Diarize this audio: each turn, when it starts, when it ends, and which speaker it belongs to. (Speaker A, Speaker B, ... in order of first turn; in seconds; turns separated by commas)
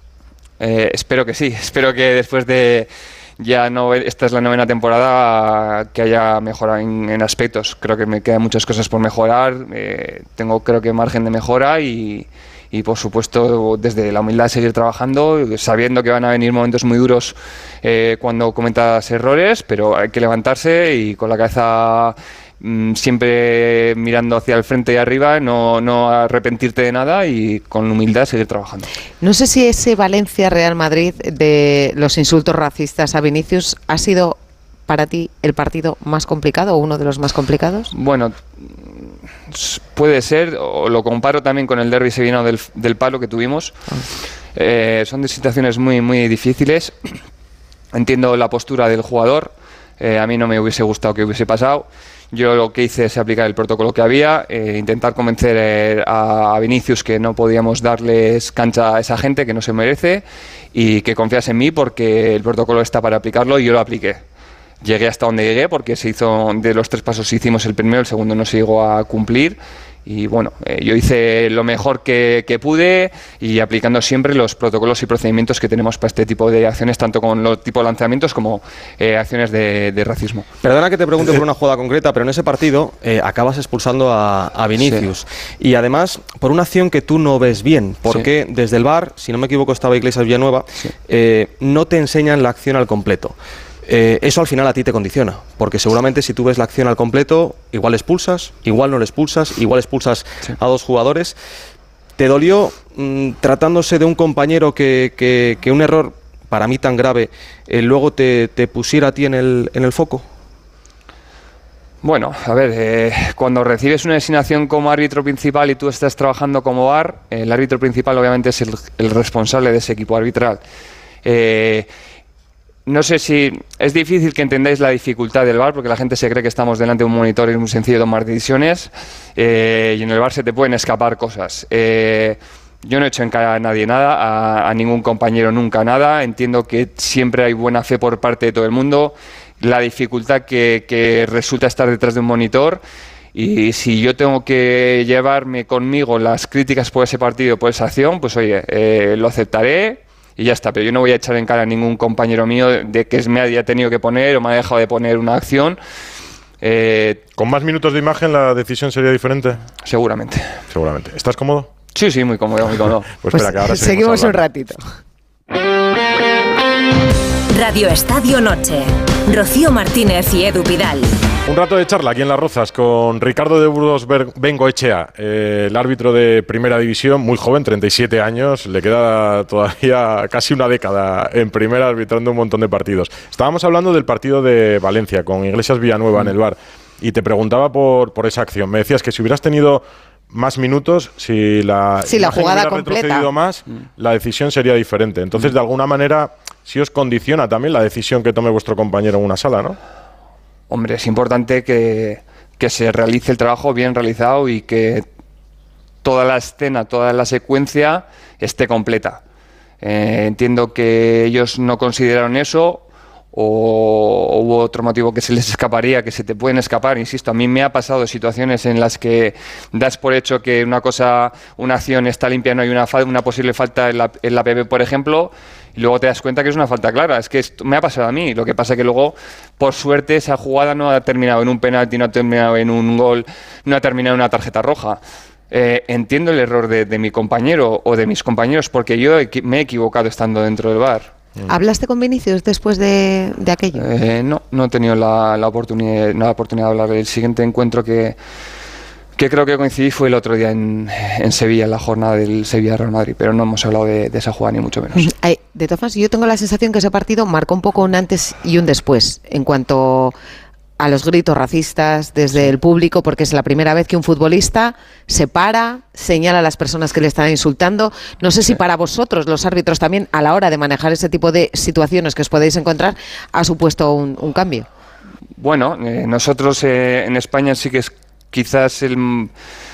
Speaker A: 0.6-28.9, Speaker B: 29.2-37.9, Speaker A: 37.9-43.8, Speaker A: 44.5-46.9, Speaker A: 47.9-64.2, Speaker A: 64.8-80.5, Speaker C: 80.6-101.4, Speaker A: 84.8-85.1, Speaker C: 102.2-110.2, Speaker A: 112.0-120.6, Speaker A: 121.2-121.9, Speaker A: 122.9-142.8, Speaker A: 143.3-155.8, Speaker A: 156.6-157.2, Speaker D: 157.4-159.6, Speaker A: 159.8-160.6, Speaker D: 160.7-161.7, Speaker A: 161.9-163.1, Speaker D: 163.2-164.4, Speaker B: 163.3-164.8, Speaker E: 167.5-171.2, Speaker D: 171.4-199.8, Speaker B: 192.1-193.3, Speaker A: 200.7-205.0, Speaker A: 206.0-209.2, Speaker A: 209.8-241.1, Speaker B: 241.5-243.9, Speaker A: 243.8-248.2, Speaker A: 249.2-255.1, Speaker B: 254.9-260.1, Speaker B: 260.8-274.7, Speaker A: 275.4-279.3